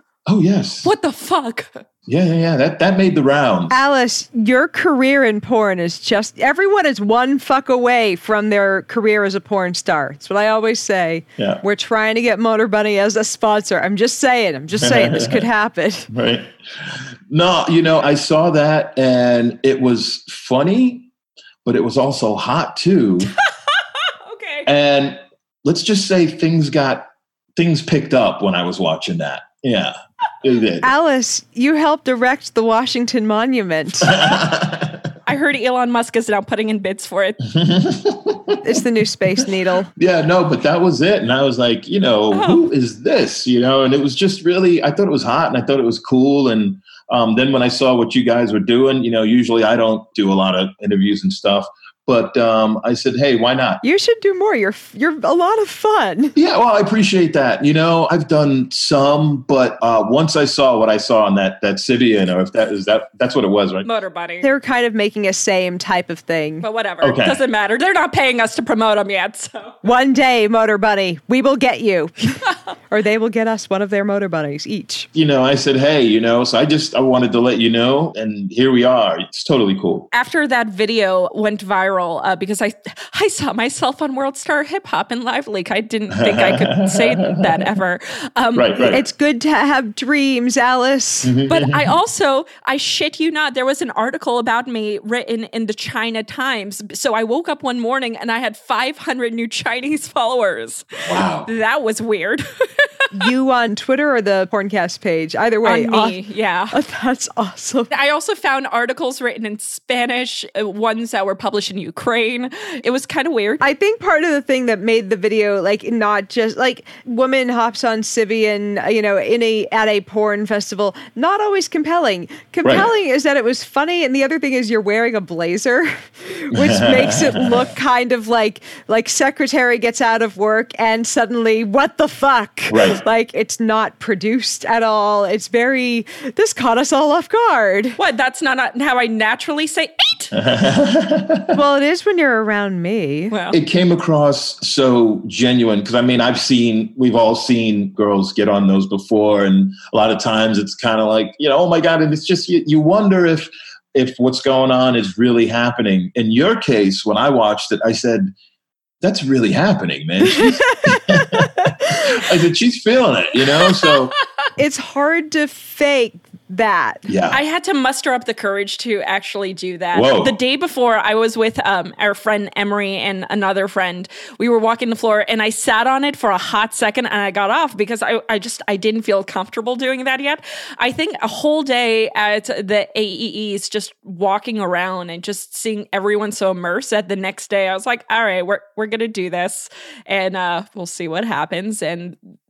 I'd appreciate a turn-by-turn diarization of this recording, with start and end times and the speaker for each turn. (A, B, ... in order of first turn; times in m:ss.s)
0:00.3-0:00.9 A
0:00.8-0:01.8 B
0:02.1-0:03.7 A
0:03.7-0:16.1 C
0:14.8-0:15.4 A
0:16.1-0:21.1 A
0:21.6-0:23.3 A
0:24.2-0:24.7 B
0:24.6-0:30.9 A
0:30.8-0:34.2 C
0:34.0-0:35.1 A
0:35.2-0:37.4 B
0:37.5-0:38.6 A
0:38.6-0:39.9 C
0:40.0-0:53.8 A
0:42.3-0:42.6 B
0:53.8-0:56.3 C
0:56.4-1:03.9 A
1:03.8-1:04.5 B
1:04.4-1:06.6 C
1:06.6-1:09.8 B
1:07.0-1:07.4 A
1:09.8-1:12.4 C
1:12.9-1:15.1 C
1:15.1-1:20.1 A
1:20.1-1:28.9 B
1:26.1-1:27.6 A
1:28.5-1:29.0 A
1:28.8-1:31.3 C
1:31.2-1:31.9 A
1:31.5-1:43.1 B
1:41.0-1:41.5 A
1:43.1-1:46.2 C
1:45.6-1:46.8 B
1:46.7-1:47.9 C
1:47.9-1:53.6 B
1:53.6-2:18.0 C
2:02.6-2:02.9 A
2:06.5-2:07.7 A
2:12.7-2:13.0 A
2:18.0-2:20.3 B
2:20.3-2:21.6 A
2:21.5-2:23.3 C
2:23.3-2:23.6 B
2:23.5-2:38.3 A
2:39.0-2:44.1 A
2:40.8-2:41.5 C
2:44.6-2:47.1 C
2:47.1-2:47.4 A
2:47.3-3:12.2 B
2:49.9-2:50.3 A